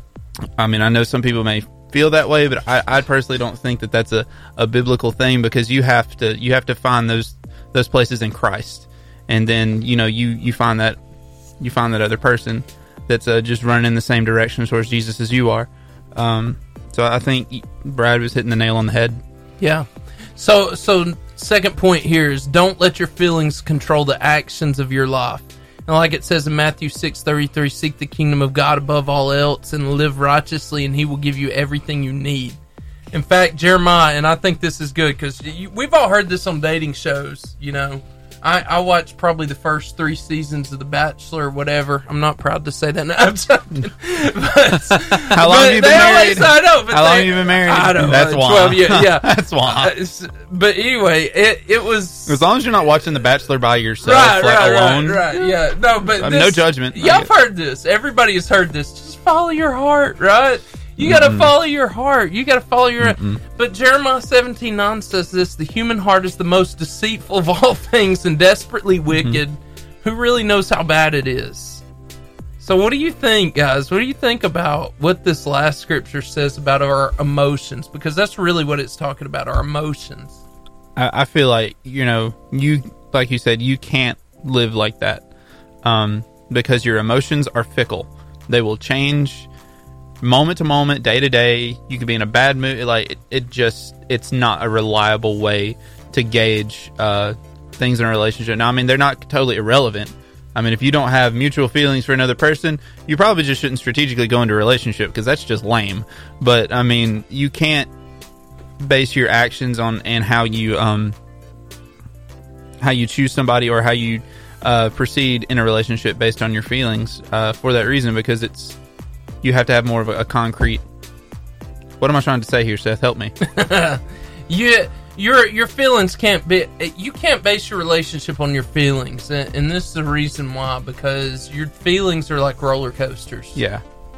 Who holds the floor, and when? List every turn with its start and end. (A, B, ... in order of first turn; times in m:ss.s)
0:00.6-0:11.0 A
0:11.6-0:19.2 A
0:19.6-0:32.6 B
0:33.1-0:52.4 B
0:45.3-0:49.9 A
0:52.2-0:55.5 A
0:54.0-1:11.8 B
0:56.2-0:57.3 A
1:01.0-1:01.5 A
1:03.0-1:03.4 A
1:09.1-1:09.4 A
1:12.6-1:20.4 B
1:21.0-1:25.2 A
1:25.8-1:29.5 A
1:30.2-1:47.9 A
1:48.8-1:51.2 A
1:52.8-1:58.8 A
1:59.4-2:00.8 A
2:02.0-2:03.3 A
2:03.4-2:13.6 B
2:13.5-2:13.8 A